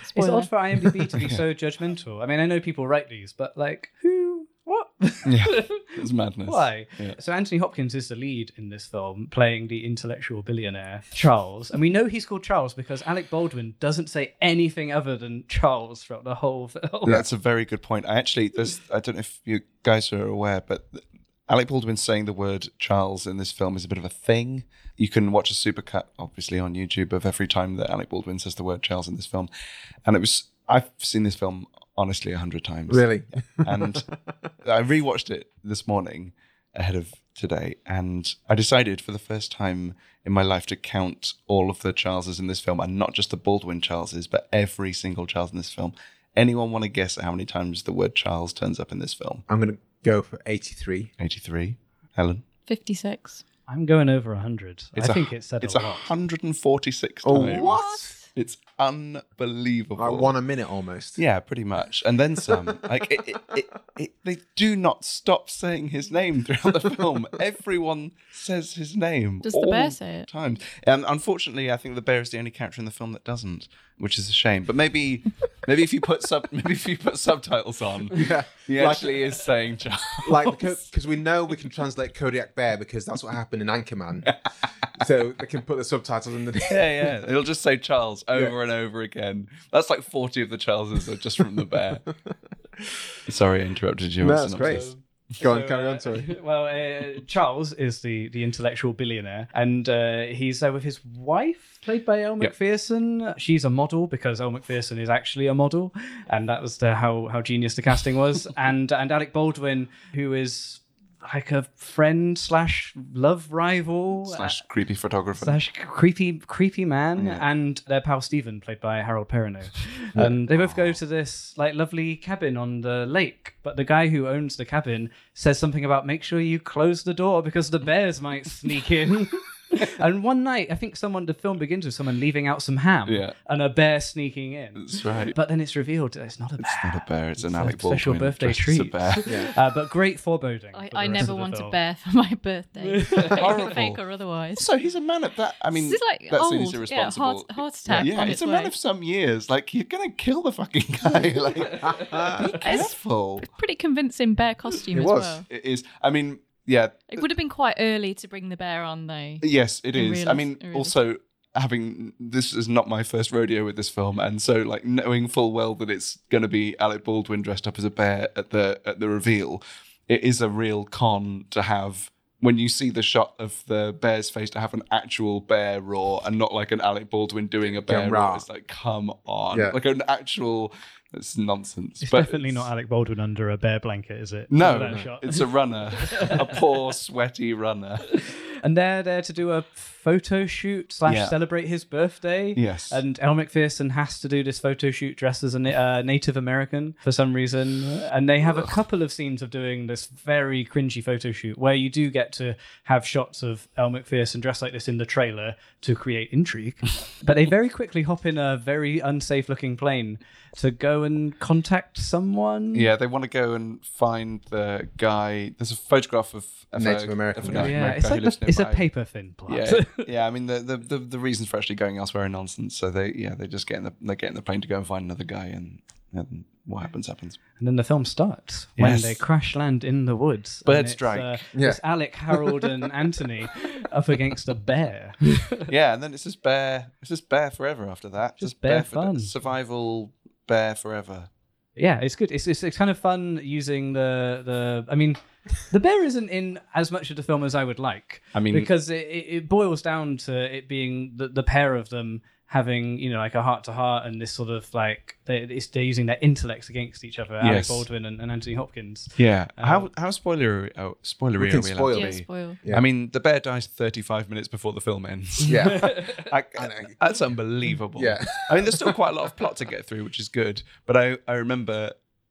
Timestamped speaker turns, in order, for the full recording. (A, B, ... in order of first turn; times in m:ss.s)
0:00.1-0:00.5 A
0:00.1-0:17.2 B
0:05.2-0:07.2 C
0:17.1-0:29.5 C
0:30.0-0:34.1 C
0:32.9-0:34.0 D
0:34.6-0:49.4 C
0:49.5-0:51.1 D
0:51.2-0:52.4 C
0:52.7-0:53.4 A
0:53.7-0:56.1 B
0:55.0-0:57.8 C
0:57.2-0:58.1 D
0:57.4-0:58.3 A
0:58.3-1:00.3 C
1:00.0-1:01.2 D
1:01.2-1:20.8 C
1:09.4-1:10.3 A
1:18.1-1:19.3 D
1:20.2-1:24.4 D
1:24.9-1:27.2 D
1:26.6-1:32.1 C
1:33.3-1:34.9 C
1:34.2-1:36.3 D
1:34.6-1:54.6 B
1:54.2-1:55.6 C
1:55.4-2:21.8 B
1:57.2-1:57.4 C
2:00.2-2:01.0 C
2:13.1-2:13.4 C
2:14.8-2:15.4 C
2:16.6-2:19.4 C
2:19.3-2:19.5 D
2:20.7-2:24.7 A
2:22.8-2:23.6 B
2:23.3-2:24.0 C
2:24.6-2:33.5 C
2:25.7-2:28.7 A
2:31.7-2:32.4 D
2:32.4-2:35.5 A
2:34.9-2:35.4 D
2:35.5-2:37.3 C
2:37.1-2:41.0 A
2:39.4-3:02.7 C
2:57.8-2:58.5 D
2:59.5-2:59.8 D
3:02.0-3:05.5 B
3:04.5-3:08.2 C
3:06.0-3:06.6 B
3:08.1-3:32.9 B
3:11.1-3:11.4 C
3:12.6-3:13.0 C
3:32.7-3:38.8 C
3:36.8-3:37.9 D
3:37.5-3:40.1 B
3:39.5-3:47.4 C
3:47.6-3:55.7 B
3:48.8-3:49.2 C
3:50.7-3:51.4 C
3:51.5-3:51.8 D
3:55.7-4:01.3 C
3:58.4-3:59.3 B
4:01.8-4:19.9 B
4:08.3-4:08.7 C
4:17.4-4:17.9 C
4:19.2-4:32.0 C
4:21.4-4:22.8 D
4:21.9-4:22.6 A
4:25.5-4:25.9 D
4:25.6-4:26.2 B
4:26.6-4:27.0 D
4:27.9-4:29.0 D